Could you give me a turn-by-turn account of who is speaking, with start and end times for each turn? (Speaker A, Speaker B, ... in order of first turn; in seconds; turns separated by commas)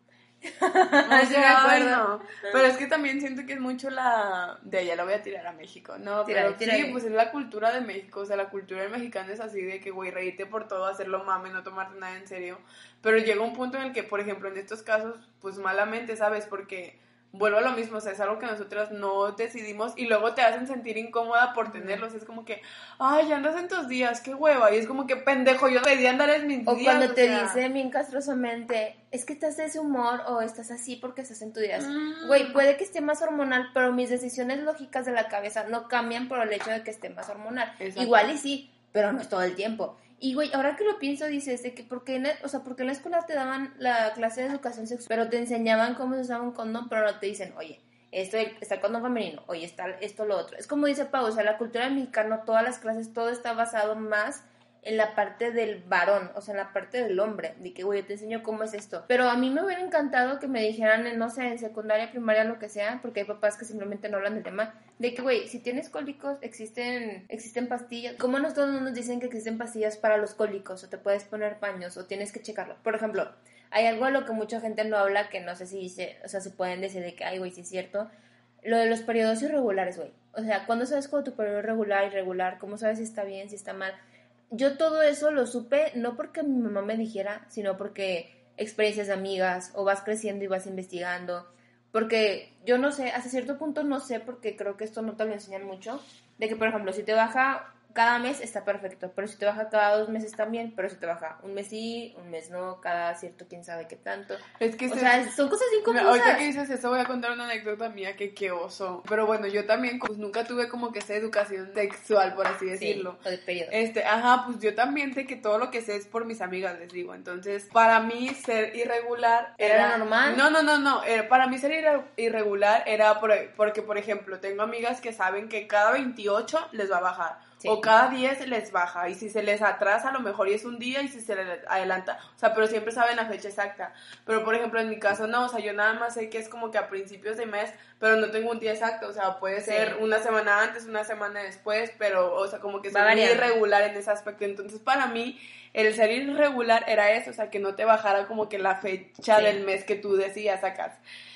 Speaker A: 0.4-2.6, Speaker B: 1.1-27.6, Speaker A: 6.2-7.0, Speaker A: 21.7-22.0, Speaker A: 26.6-78.1, Speaker B: 31.8-32.6, Speaker B: 37.8-38.3, Speaker A: 78.6-84.0, Speaker A: 84.5-106.5, Speaker B: 104.6-105.2, Speaker B: 105.8-113.2, Speaker A: 112.8-113.8, Speaker B: 113.7-151.0, Speaker A: 119.6-120.4, Speaker A: 127.6-127.9, Speaker A: 139.6-140.0, Speaker A: 142.9-143.6, Speaker A: 149.3-149.6